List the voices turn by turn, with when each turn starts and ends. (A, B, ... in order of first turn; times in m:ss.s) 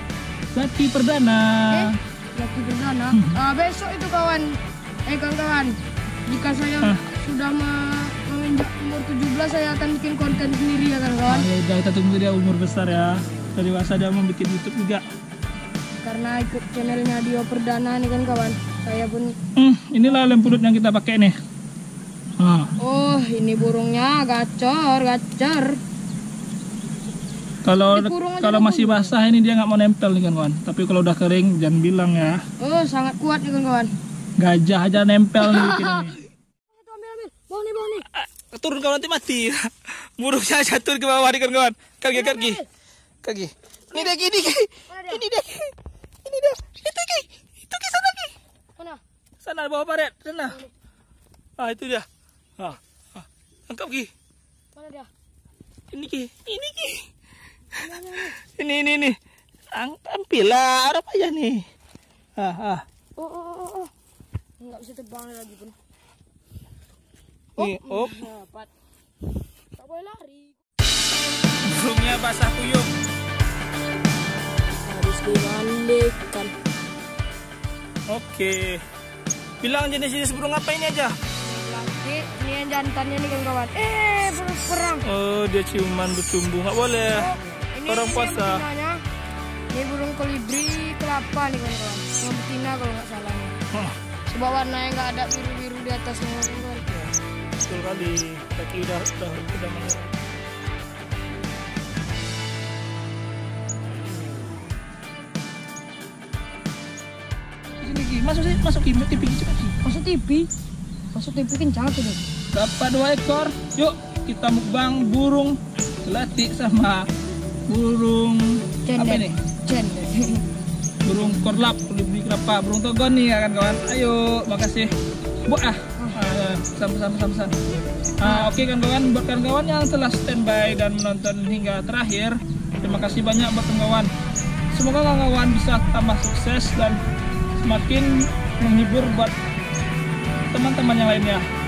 0:00.5-0:02.0 A
0:01.7-0:11.5 B
0:03.1-0:03.4 A
0:11.3-0:15.0 A
0:16.0-0:19.4 B
0:19.6-0:21.3 A
0:22.4-0:22.7 A
0:22.8-0:25.8 B
0:27.6-0:32.4 A
0:27.9-0:29.2 B
0:32.6-0:33.9 B
0:34.4-0:36.2 A
0:35.4-0:36.1 B
0:36.7-0:38.0 B
0:38.1-0:42.6 A
0:42.1-0:42.6 B
0:43.2-0:48.3 A
0:44.9-0:45.2 B
0:48.8-0:49.0 B
0:49.4-0:50.6 A
0:51.6-0:52.1 A
0:52.6-0:54.1 A
0:54.7-0:55.1 B
0:55.9-0:57.1 A
0:57.7-0:58.4 B
0:57.8-0:59.2 A
0:59.7-1:01.6 A
1:02.4-1:02.8 A
1:03.2-1:03.9 B
1:04.6-1:05.8 B
1:07.6-1:08.3 A
1:07.6-1:08.7 B
1:09.8-1:10.6 B
1:11.6-1:12.9 A
1:14.8-1:16.5 B
1:18.1-1:18.8 A
1:19.6-1:21.2 A
1:21.4-1:25.0 B
1:25.0-1:27.3 A
1:27.1-1:29.0 B
1:27.8-1:28.6 A
1:29.7-1:33.5 B
1:34.3-1:36.8 B
1:36.9-1:40.2 A
1:47.8-1:49.8 A
1:49.8-1:50.5 B
1:51.1-1:52.2 B
1:52.5-1:57.1 A
1:57.7-1:59.4 A
1:58.8-2:00.5 B
2:01.0-2:04.9 A
2:05.5-2:07.6 A
2:08.2-2:14.1 A
2:08.2-2:08.6 B
2:14.7-2:17.0 A
2:17.6-2:19.3 A
2:20.5-2:21.4 A